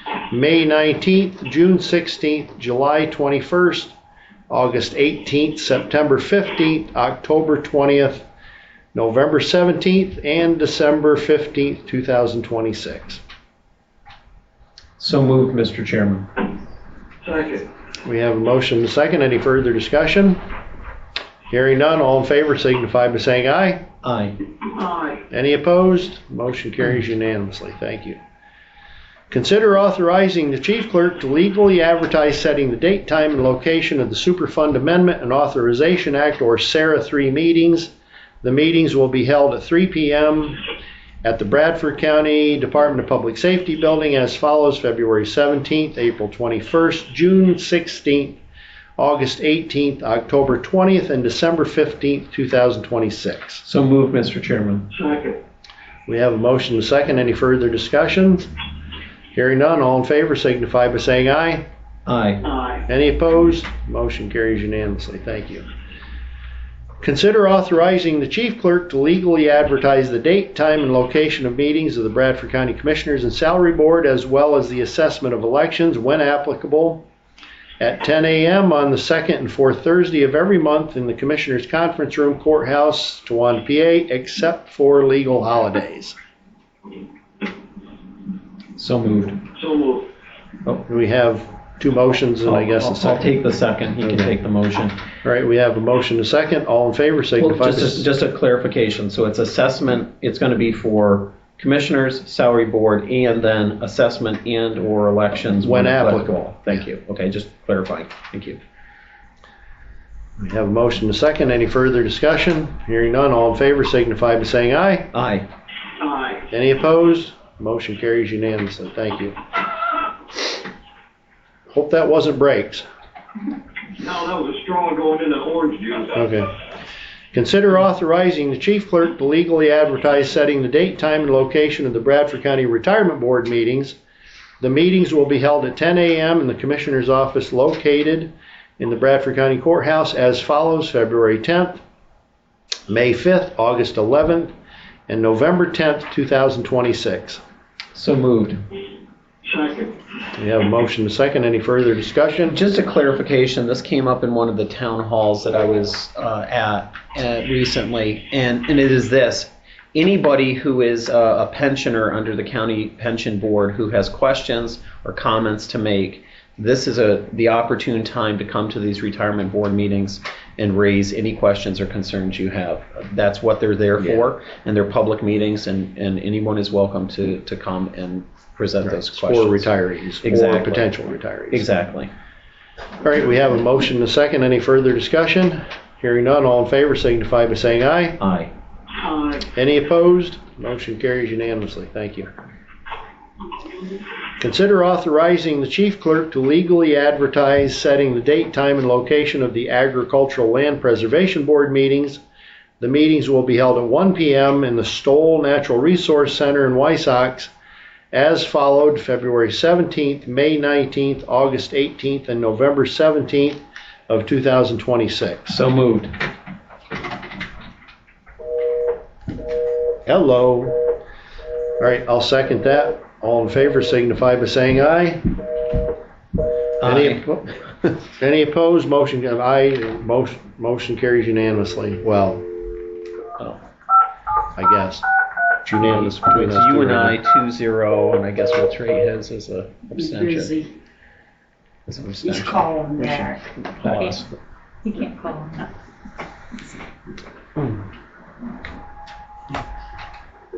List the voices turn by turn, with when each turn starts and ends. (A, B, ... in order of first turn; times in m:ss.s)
0:00.3-0:03.9 A
0:04.5-0:08.2 A
0:08.9-0:13.2 A
0:15.0-0:16.3 B
0:17.2-0:17.6 C
0:18.0-0:20.4 A
0:21.5-0:23.8 A
0:24.0-0:24.4 B
0:24.6-0:25.2 C
0:25.3-0:28.2 A
0:29.3-0:40.6 A
0:41.2-0:48.4 A
0:49.0-0:53.6 A
0:53.6-0:54.9 B
0:54.9-0:55.4 C
0:56.1-0:58.5 A
0:59.3-1:01.6 A
1:02.0-1:02.4 B
1:02.4-1:02.8 C
1:02.9-1:05.6 A
1:07.0-1:17.0 A
1:17.8-1:26.2 A
1:28.8-1:29.4 B
1:29.5-1:30.1 C
1:30.9-1:33.3 A
1:32.4-1:35.0 B
1:34.0-1:34.3 A
1:35.2-1:38.0 A
1:37.4-1:48.6 B
1:45.6-1:46.4 A
1:50.4-1:55.1 A
1:55.1-1:55.4 B
1:56.0-1:56.4 C
1:56.5-1:59.4 A
2:01.7-2:02.8 A
2:03.9-2:06.3 C
2:06.1-2:06.5 A
2:07.3-2:14.0 A
2:14.6-2:21.8 A
2:22.9-2:24.5 A
2:25.1-2:27.4 A
2:27.9-2:28.6 B
2:29.4-2:30.0 C
2:30.4-2:32.6 A
2:32.5-2:59.7 B
2:54.0-2:54.2 A
2:58.8-3:01.7 A
3:00.2-3:00.9 B
3:01.5-3:02.1 B
3:03.0-3:08.2 A
3:08.2-3:08.5 B
3:09.0-3:09.4 C
3:09.5-3:12.3 A
3:14.4-3:22.2 A
3:22.8-3:27.5 A
3:28.1-3:35.6 A
3:35.5-3:36.1 B
3:40.0-3:40.8 A
3:41.8-3:45.2 A
3:46.8-3:47.2 B
3:46.8-3:52.4 A
3:54.6-3:55.0 A
3:55.6-3:57.2 A
3:55.8-4:00.7 B
4:00.1-4:00.7 D
4:01.9-4:04.3 B
4:02.3-4:04.2 D
4:04.8-4:05.7 D